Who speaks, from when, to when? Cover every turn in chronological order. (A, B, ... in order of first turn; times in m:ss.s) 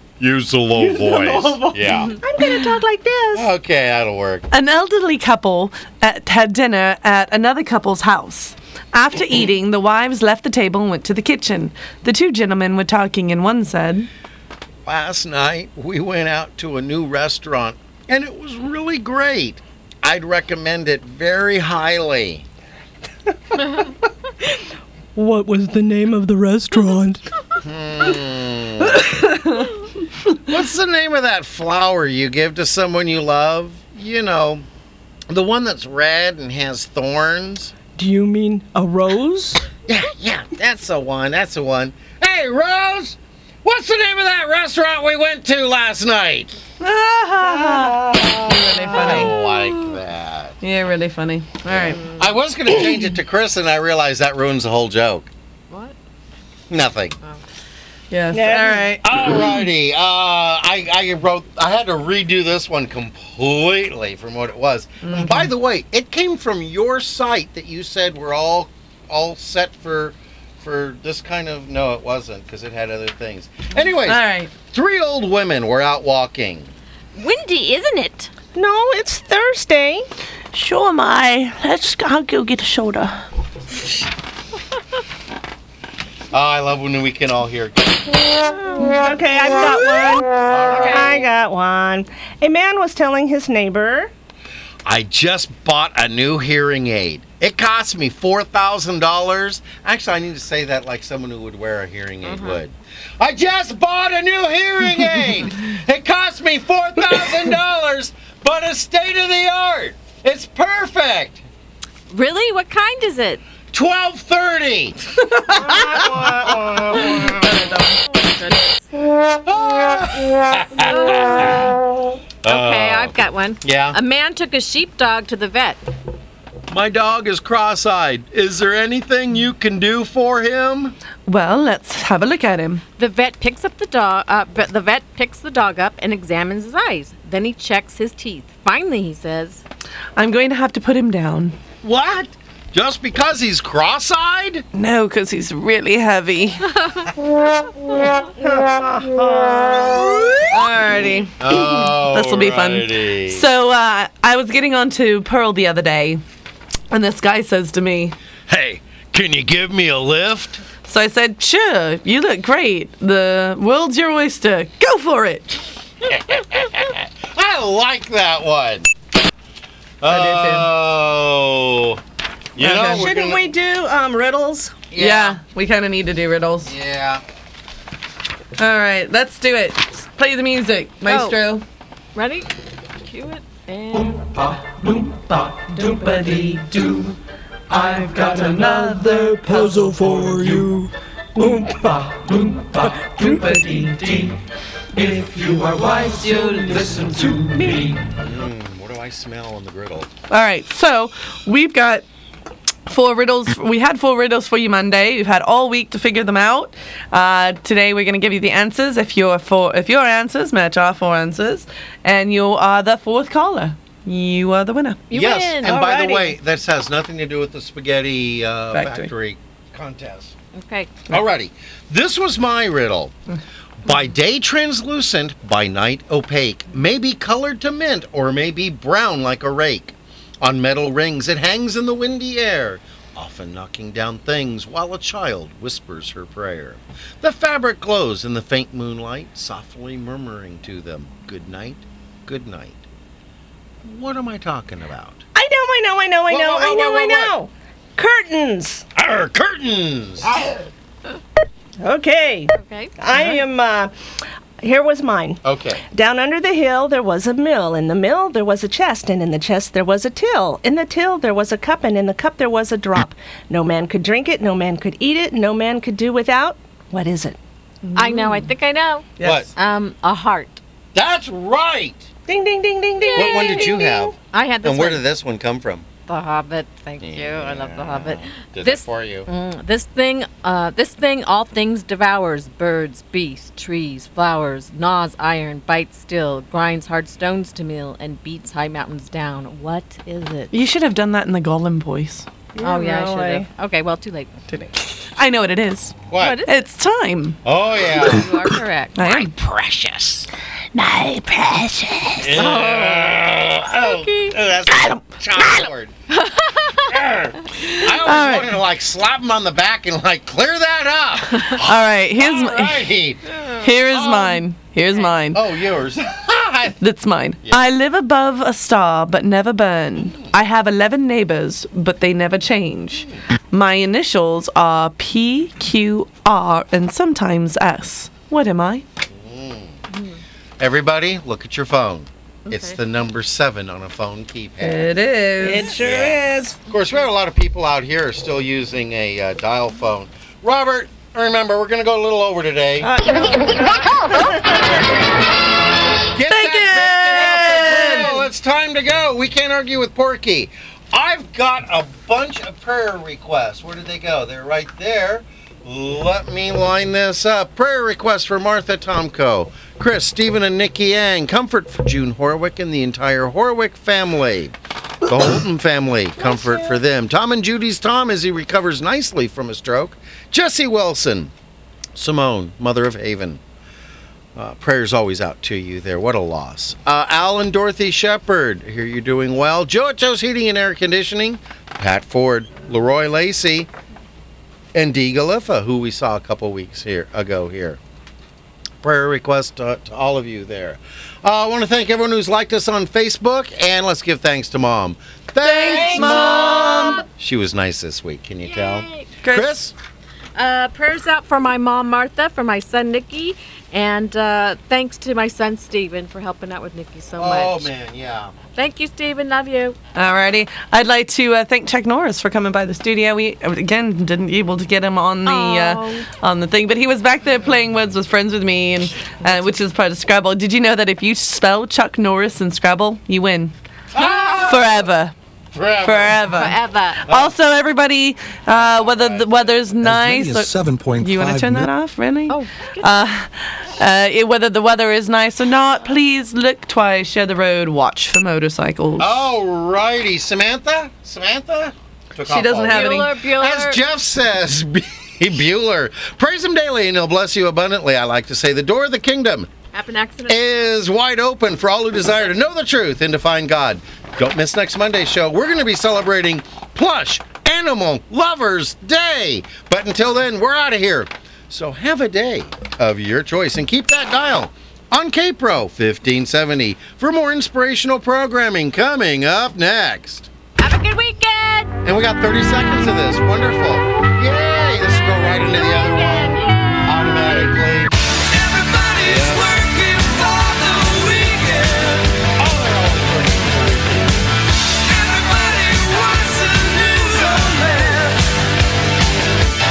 0:00.2-0:02.2 A
0:00.8-0:03.5 B
0:03.3-0:04.5 A
0:04.5-0:14.1 C
0:14.8-0:22.5 A
0:25.2-0:27.2 B
0:27.6-0:29.0 A
0:29.4-0:29.7 C
0:30.4-0:34.7 A
0:35.3-0:37.7 A
0:38.0-0:39.7 B
0:39.9-0:46.5 A
0:46.8-0:49.3 C
0:47.4-0:48.6 B
0:48.2-0:50.6 A
0:50.6-0:52.0 C
0:51.6-0:55.3 A
0:55.7-0:56.0 D
0:56.7-0:57.2 A
0:58.1-0:59.1 C
0:58.3-0:59.0 B
0:59.0-1:16.7 A
1:05.0-1:05.5 C
1:14.1-1:14.5 C
1:17.2-1:18.3 D
1:18.6-1:20.1 B
1:20.5-1:23.2 C
1:26.3-1:28.2 A
1:28.8-1:34.1 B
1:30.4-1:31.2 A
1:30.7-1:31.1 D
1:34.8-1:51.4 A
1:42.2-1:42.6 D
1:52.1-1:53.4 D
1:53.7-1:55.0 A
1:55.4-1:55.7 C
1:55.6-1:56.6 B
1:55.6-1:57.5 A
1:57.3-1:58.0 C
1:58.2-1:58.8 D
1:59.4-2:01.7 A
2:01.0-2:01.4 D
2:02.4-2:04.0 A
2:02.5-2:05.8 D
2:06.7-2:11.0 A
2:11.3-2:12.8 C
2:13.0-2:19.6 D
2:20.2-2:21.6 C
2:21.8-2:24.6 A
2:24.7-2:26.7 C
2:28.4-2:30.5 B
2:30.5-2:36.2 C
2:31.4-2:33.4 A
2:36.9-2:38.2 C
2:38.5-2:40.6 A
2:40.9-2:45.6 C
2:46.1-2:48.9 A
2:50.0-2:52.0 A
2:50.1-2:50.7 C
2:52.6-2:53.5 A
2:52.6-2:53.1 C
2:52.8-2:54.8 B
2:54.9-2:55.4 A
2:55.0-2:56.7 C
2:56.6-2:57.2 A
2:58.6-3:01.6 C
3:01.1-3:01.4 D
3:02.2-3:04.3 D
3:05.9-3:06.4 C
3:07.7-3:09.4 E
3:08.2-3:10.0 C
3:09.7-3:10.8 B
3:09.9-3:10.7 E
3:11.4-3:12.0 B
3:13.3-3:14.0 E
3:15.0-3:17.8 E
3:17.5-3:17.8 B
3:18.2-3:20.1 A
3:20.3-3:22.1 C
3:22.9-3:35.0 C
3:35.1-3:35.8 D
3:35.1-3:40.4 A
3:35.6-3:36.4 B
3:38.7-3:39.1 C
3:40.6-3:41.0 D
3:41.1-3:43.1 A
3:43.8-4:02.8 A
4:03.8-4:05.2 A
4:05.4-4:08.8 B
4:06.3-4:07.4 A
4:09.0-4:10.4 A
4:11.8-4:13.9 B
4:12.5-4:13.2 D
4:14.6-4:27.4 B
4:15.4-4:15.8 A
4:27.8-4:28.5 C
4:28.0-4:30.6 D
4:29.2-4:29.5 C
4:29.2-4:29.5 A
4:30.9-4:32.1 A
4:32.3-4:34.1 B
4:33.0-4:35.0 D
4:33.1-4:35.9 A
4:36.1-4:50.5 D
4:37.0-4:39.3 A
4:50.5-4:52.4 C
4:52.6-4:53.4 B
4:52.6-4:54.4 D
4:54.5-4:57.4 C
4:56.1-4:56.4 A
4:56.2-4:56.5 D
4:57.4-4:58.3 A
4:58.0-4:59.3 D
4:59.0-5:01.8 C
5:02.2-5:05.9 A
5:02.3-5:04.4 D
5:06.3-5:06.8 D
5:06.9-5:13.2 A
5:08.0-5:08.6 C
5:11.6-5:12.9 C
5:13.6-5:15.4 C
5:13.9-5:14.4 A
5:15.3-5:16.8 A
5:16.8-5:28.8 C
5:20.0-5:20.3 A
5:23.0-5:23.2 A
5:29.1-5:29.8 A
5:29.9-5:30.2 D
5:30.6-5:34.9 A
5:32.5-5:32.8 D
5:34.6-5:35.8 C
5:35.4-5:36.6 B
5:35.6-5:42.9 A
5:42.8-5:44.7 B
5:46.1-6:11.3 A
5:46.3-5:48.2 C
6:11.9-6:13.4 A
6:14.4-6:23.7 A
6:24.7-6:27.8 A
6:28.8-6:39.7 A
6:35.4-6:37.0 C
6:35.9-6:36.6 B
6:38.4-6:39.1 D
6:39.2-6:39.5 C
6:40.4-6:47.7 D
6:47.2-6:48.4 A
6:48.5-6:49.8 D
6:50.0-7:03.5 C
6:55.2-6:56.1 D
7:03.9-7:04.8 A
7:04.4-7:05.1 C
7:05.5-7:06.3 A
7:05.8-7:19.2 C
7:06.4-7:07.0 D
7:07.1-7:07.3 A
7:08.5-7:09.8 A
7:09.8-7:11.7 E
7:12.3-7:13.0 D
7:19.0-7:29.5 A
7:22.3-7:23.1 C
7:22.7-7:23.8 D
7:29.7-7:30.7 D
7:30.3-7:50.3 A
7:50.6-7:51.7 D
7:51.8-7:57.9 A
7:55.4-7:57.3 D
7:58.3-8:02.1 E
7:59.0-7:59.6 A
8:02.4-8:04.2 A
8:04.9-8:08.3 E